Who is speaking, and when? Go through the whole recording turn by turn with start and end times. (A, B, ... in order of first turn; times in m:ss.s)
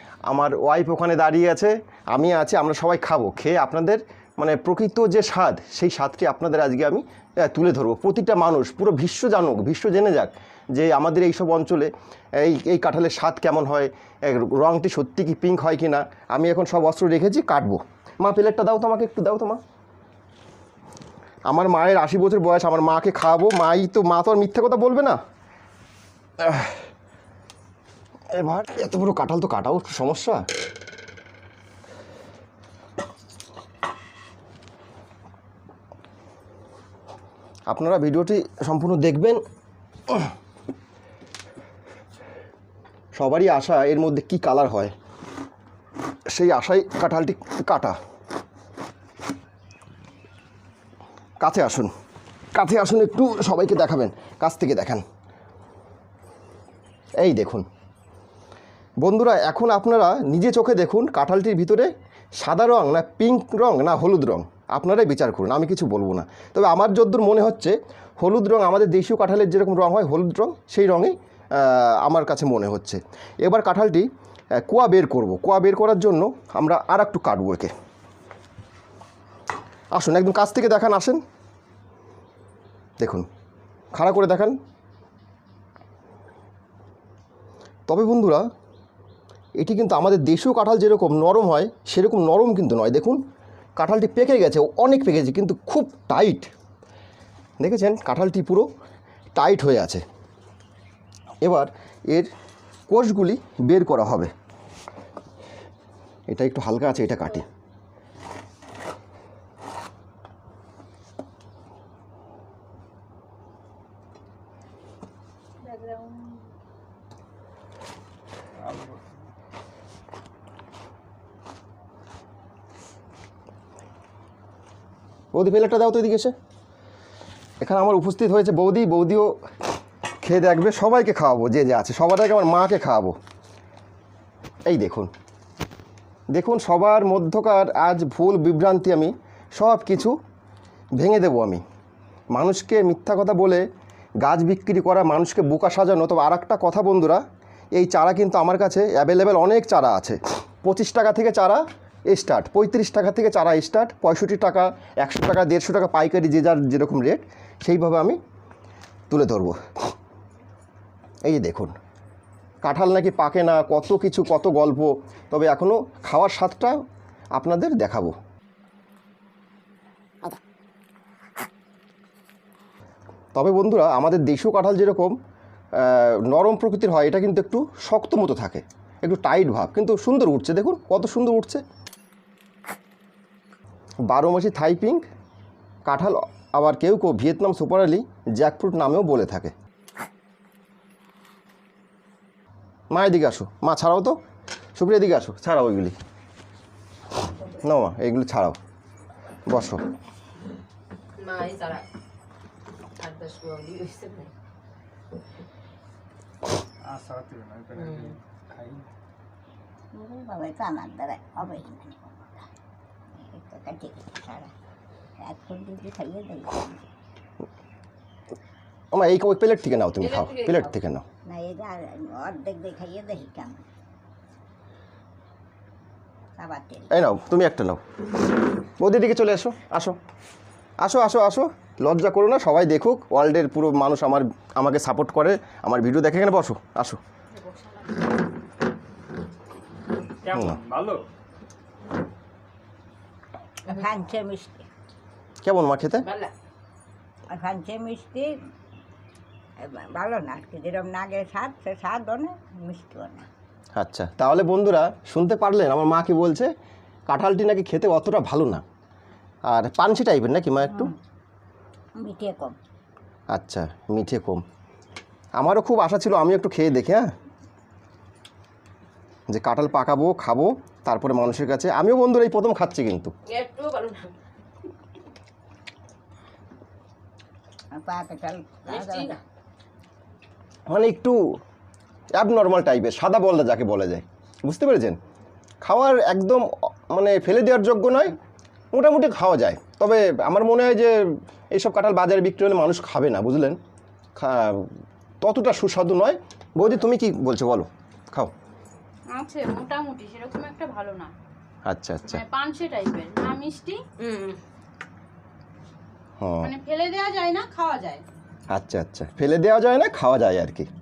0:00.3-0:19.6 A
0:21.5-0:25.2 A
0:26.4-0:26.8 A
0:28.3-0:30.4 A
0:37.7-0:39.4 A
0:43.2-0:44.9 A
0:46.3-0:48.0 A
0:51.4-0:51.9 A
0:52.5-0:55.0 A
0:57.2-0:57.6 A
0:59.0-1:17.7 A
1:19.9-1:21.2 A
1:23.0-1:23.3 A
1:23.9-1:24.6 A
1:27.9-1:28.5 A
1:29.6-1:33.2 A
1:33.8-1:36.5 A
1:37.6-1:38.7 A
1:39.4-1:40.0 A
1:41.4-1:42.3 A
1:42.9-1:44.3 A
1:46.3-1:47.5 A
1:55.6-1:56.4 B
1:58.6-1:59.0 C
2:05.3-2:06.4 A
2:07.6-2:09.3 A
2:10.2-2:13.2 A
2:14.7-2:15.1 A
2:16.3-2:20.2 A
2:21.0-2:21.6 A
2:22.3-2:23.7 A
2:24.2-2:27.2 A
2:27.8-2:38.2 A
2:39.1-2:39.6 A
2:41.2-2:41.8 A
2:42.6-2:46.8 A
2:47.4-2:48.2 A
2:53.3-2:55.2 A
2:55.8-3:01.6 A
3:04.1-3:05.0 A
3:05.8-3:09.5 A
3:12.9-3:14.2 A
3:14.8-3:16.0 A
3:17.5-3:18.6 A
3:19.5-3:19.8 A
3:21.2-3:21.8 D
3:23.0-3:24.3 D
3:26.8-3:28.9 C
3:27.8-3:28.2 D
3:29.9-3:32.5 E
3:33.2-3:34.5 E
3:35.2-3:36.8 E
3:38.9-3:41.0 A
3:40.0-3:40.8 D
3:41.3-3:43.6 E
3:46.4-3:46.9 E
3:46.9-3:47.8 A
3:48.8-3:50.0 A
3:50.8-3:57.0 A
3:57.4-3:57.8 D
4:00.3-4:00.6 A
4:00.3-4:01.0 C
4:03.7-4:04.7 E
4:05.4-4:06.1 A
4:06.0-4:06.3 D
4:07.3-4:08.3 E
4:09.6-4:13.3 E
4:13.8-4:16.5 A
4:17.1-4:18.6 A
4:19.5-4:20.9 A
4:22.0-4:22.6 E
4:23.3-4:24.4 A
4:25.4-4:27.1 A
4:29.3-4:33.1 A
4:33.3-4:34.1 D
4:37.7-4:39.2 E
4:38.7-4:39.2 D
4:40.7-4:41.2 A
4:42.2-4:45.0 A
4:45.6-4:48.2 A
4:48.7-4:53.6 A
4:54.2-4:54.7 A
4:55.2-4:58.3 A
4:59.1-5:01.1 B
5:01.7-5:02.2 A
5:02.1-5:03.9 B
5:04.0-5:04.4 D
5:06.2-5:06.5 A
5:06.4-5:08.0 B
5:08.5-5:10.7 A